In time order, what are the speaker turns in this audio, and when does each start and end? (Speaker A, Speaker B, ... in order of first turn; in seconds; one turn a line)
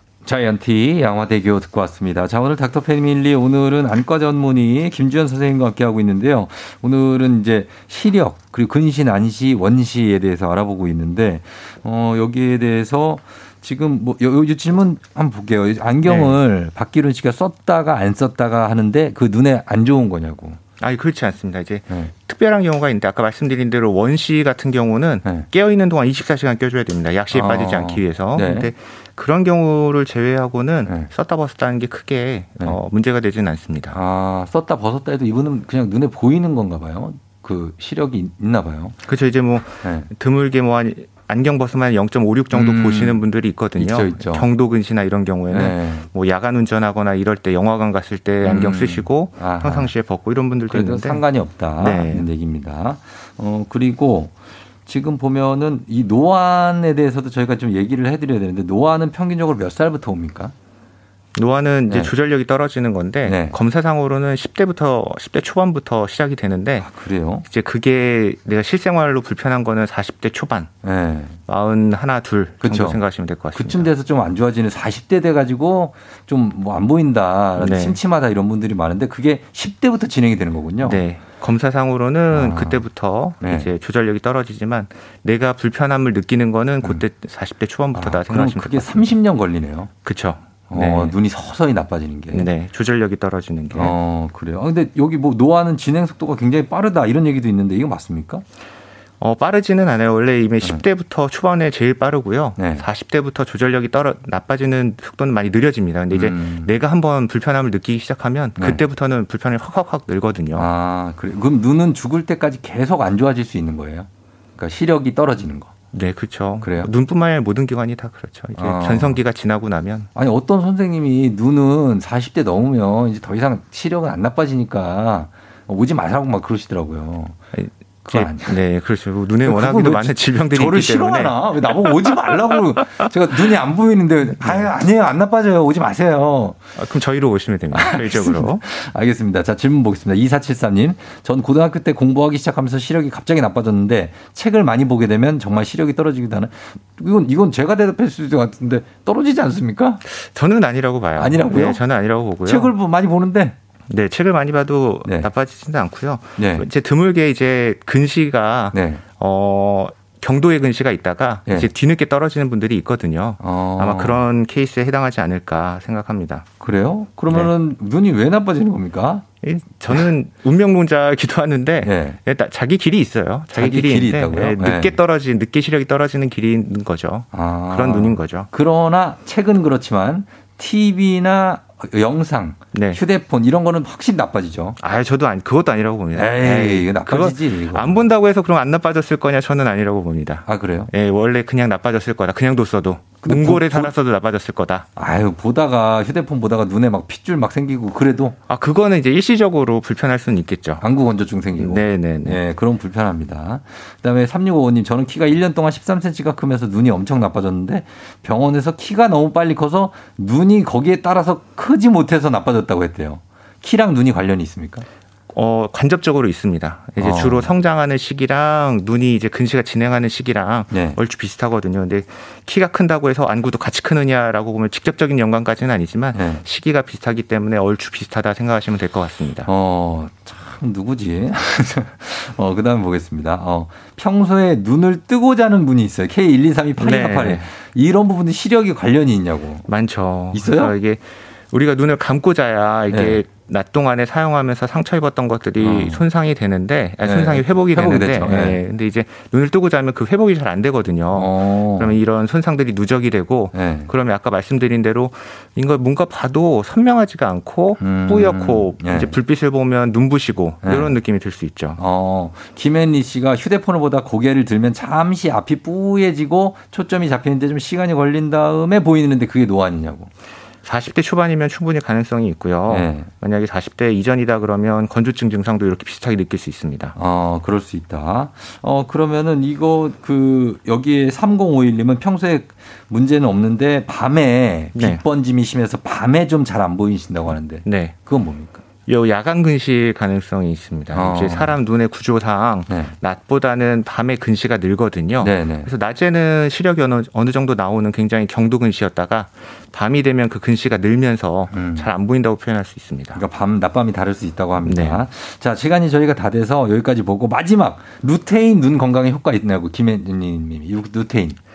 Speaker A: 0.2-20.6
Speaker B: 16.0-16.4
Speaker B: 20.8-34.0
Speaker A: 27.3-28.7
Speaker A: 33.9-39.0
Speaker B: 39.0-51.2
Speaker A: 39.8-40.1
Speaker A: 42.5-43.2
Speaker A: 43.8-44.5
Speaker A: 45.5-46.1
Speaker A: 48.4-49.9
Speaker A: 50.7-54.3
Speaker B: 51.8-52.3
Speaker A: 54.9-60.5
Speaker B: 61.3-66.9
Speaker A: 61.9-62.1
Speaker A: 63.2-63.6
Speaker A: 66.8-67.5
Speaker B: 67.4-70.7
Speaker A: 70.8-71.4
Speaker B: 71.5-73.9
Speaker A: 72.6-73.0
Speaker A: 73.5-81.0
Speaker B: 77.6-78.0
Speaker B: 80.8-89.1
Speaker A: 82.3-82.8
Speaker A: 83.4-83.7
Speaker A: 87.9-89.9
Speaker B: 90.0-91.1
Speaker A: 90.7-92.5
Speaker B: 92.3-94.0
Speaker A: 93.7-98.4
Speaker B: 99.2-110.7
Speaker A: 102.6-102.9
Speaker A: 106.1-106.7
Speaker A: 110.5-115.7
Speaker B: 115.9-120.1
Speaker A: 116.6-116.9
Speaker A: 118.6-119.2
Speaker A: 120.1-127.3
Speaker B: 127.5-132.2
Speaker A: 128.0-128.6
Speaker A: 129.4-136.6
Speaker B: 136.8-138.6
Speaker A: 137.7-150.0
Speaker B: 150.1-152.7
Speaker A: 151.2-151.8
Speaker A: 152.4-153.5
Speaker B: 153.9-166.4
Speaker A: 156.4-156.7
Speaker A: 158.7-159.0
Speaker A: 163.4-164.2
Speaker A: 166.6-169.2
Speaker B: 169.4-178.5
Speaker A: 171.8-172.2
Speaker A: 173.5-175.0
Speaker A: 177.3-184.8
Speaker B: 182.7-183.0
Speaker B: 184.8-194.9
Speaker A: 186.1-188.1
Speaker A: 190.5-190.9
Speaker A: 193.2-193.9
Speaker A: 194.9-198.3
Speaker B: 198.5-200.8
Speaker A: 200.8-214.8
Speaker B: 201.5-202.4
Speaker B: 215.3-229.5
Speaker A: 217.0-217.5
Speaker A: 220.7-221.0
Speaker A: 226.1-226.4
Speaker A: 229.4-239.7
Speaker B: 236.8-237.5
Speaker B: 239.7-261.8
Speaker A: 240.3-240.8
Speaker A: 242.9-243.2
Speaker A: 245.6-246.0
Speaker A: 247.0-248.6
Speaker A: 251.1-252.0
Speaker A: 253.5-253.9
Speaker A: 257.8-259.2
Speaker A: 260.6-260.9
Speaker A: 261.8-270.1
Speaker B: 270.6-276.9
Speaker A: 272.7-273.1
Speaker A: 276.9-288.6
Speaker B: 284.7-285.0
Speaker B: 287.6-287.9
Speaker B: 288.9-303.2
Speaker A: 290.9-291.6
Speaker A: 292.7-292.9
Speaker A: 295.2-295.7
Speaker A: 301.5-301.9
Speaker A: 303.1-311.4
Speaker B: 304.6-305.0